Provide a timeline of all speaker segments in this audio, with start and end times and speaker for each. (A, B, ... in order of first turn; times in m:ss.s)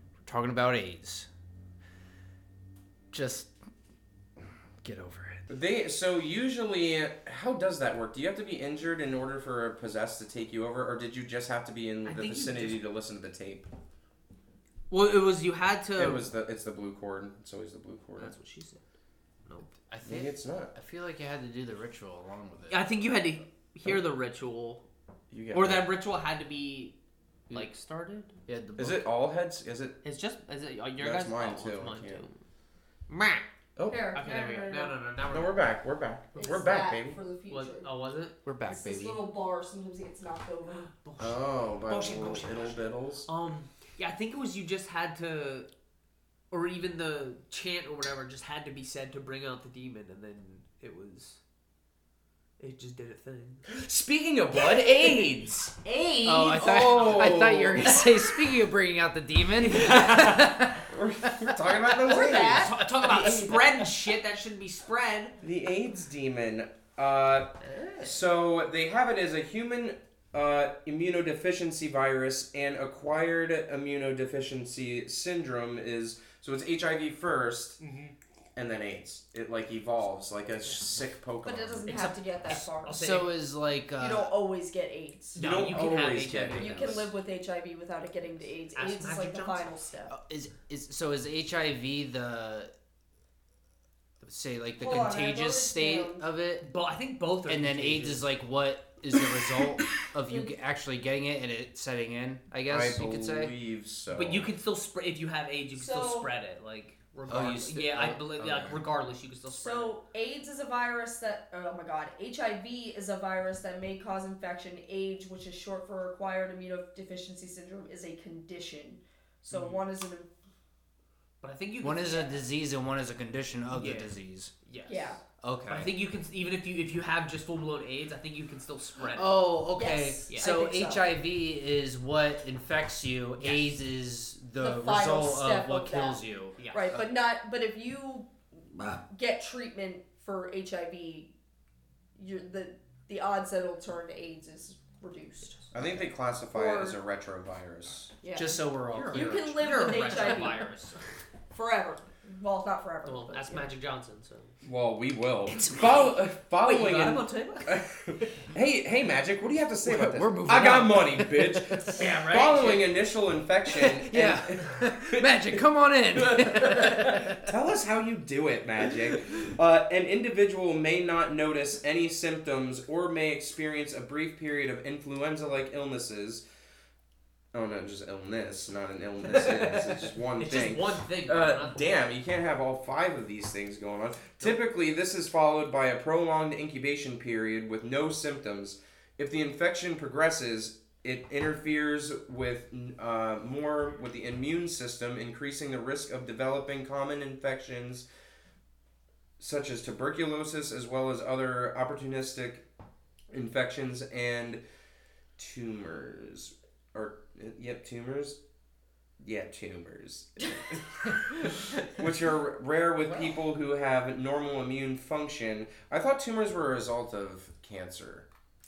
0:00.2-0:01.3 A
0:03.1-0:03.5 A
0:04.8-0:05.5 A
0:05.5-0:13.7 B
0:12.0-0:12.8 C
0:14.9-0:16.2 C
0:16.0-0:18.3 B
0:18.2-0:18.8 C
0:19.5-0:19.7 C
0:19.9-0:22.8 A
0:20.0-0:20.7 B
0:22.7-0:24.8 C
0:25.3-0:25.9 B
0:25.5-0:26.9 C
0:27.5-0:28.4 C
0:28.4-0:29.1 A
0:28.8-0:30.0 B
0:30.0-0:32.4 C
0:31.0-0:32.2 B
0:33.1-0:33.4 C
0:33.8-0:34.1 B
0:33.9-0:35.0 D
0:34.1-0:35.6 C
0:35.3-0:37.2 B
0:36.3-0:36.6 C
0:36.4-0:37.9 D
0:37.5-0:38.4 C
0:38.4-0:39.2 A
0:38.6-0:40.9 D
0:40.8-0:45.7 C
0:41.2-0:43.3 B
0:46.5-0:51.4 C
0:52.6-0:53.6 C
0:53.7-0:55.8 B
0:55.8-0:57.3 C
0:56.2-1:01.3 A
0:56.4-0:58.0 B
0:59.7-1:00.3 C
1:00.9-1:03.9 B
1:02.0-1:05.4 C
1:02.0-1:02.7 D
1:05.4-1:17.8 B
1:07.6-1:08.2 C
1:17.8-1:18.1 C
1:18.6-1:22.0 B
1:21.4-1:23.2 D
1:21.8-1:23.3 C
1:23.0-1:24.3 A
1:24.0-1:25.4 D
1:25.3-1:27.1 C
1:25.4-1:27.1 B
1:26.6-1:30.1 D
1:28.7-1:29.7 C
1:30.1-1:32.7 A
1:34.2-1:36.7 A
1:34.8-1:36.2 D
1:36.6-1:38.2 C
1:37.5-1:43.5 A
1:40.3-1:40.5 D
1:42.7-1:44.5 B
1:44.1-1:49.9 C
1:45.7-1:46.3 D
1:47.3-1:48.6 A
1:48.4-1:48.8 B
1:49.5-2:00.3 D
1:59.5-1:59.8 C
2:01.4-2:02.4 C
2:01.8-2:04.5 A
2:03.7-2:04.1 C
2:04.6-2:05.2 C
2:04.8-2:05.2 D
2:05.4-2:05.9 A
2:05.7-2:09.4 C
2:09.1-2:16.5 A
2:09.7-2:11.1 D
2:13.4-2:13.7 C
2:14.6-2:16.2 D
2:16.6-2:17.0 C
2:16.7-2:18.3 D
2:18.7-2:19.0 A
2:19.0-2:21.3 D
2:22.2-2:25.7 D
2:25.7-2:28.1 B
2:26.5-2:27.0 D
2:28.2-2:28.6 D
2:28.3-2:30.5 A
2:28.9-2:31.0 C
2:29.1-2:30.7 D
2:31.5-2:33.7 D
2:33.0-2:34.5 C
2:34.6-2:45.5 B
2:35.6-2:35.8 A
2:35.6-2:37.8 C
2:39.8-2:42.0 A
2:41.9-2:42.9 C
2:43.8-2:47.5 A
2:46.2-2:56.4 B
2:57.5-3:18.1 B
2:59.3-3:02.0 C
3:19.4-3:22.6 B
3:23.3-3:24.6 B
3:25.4-3:28.4 B
3:29.2-3:38.2 B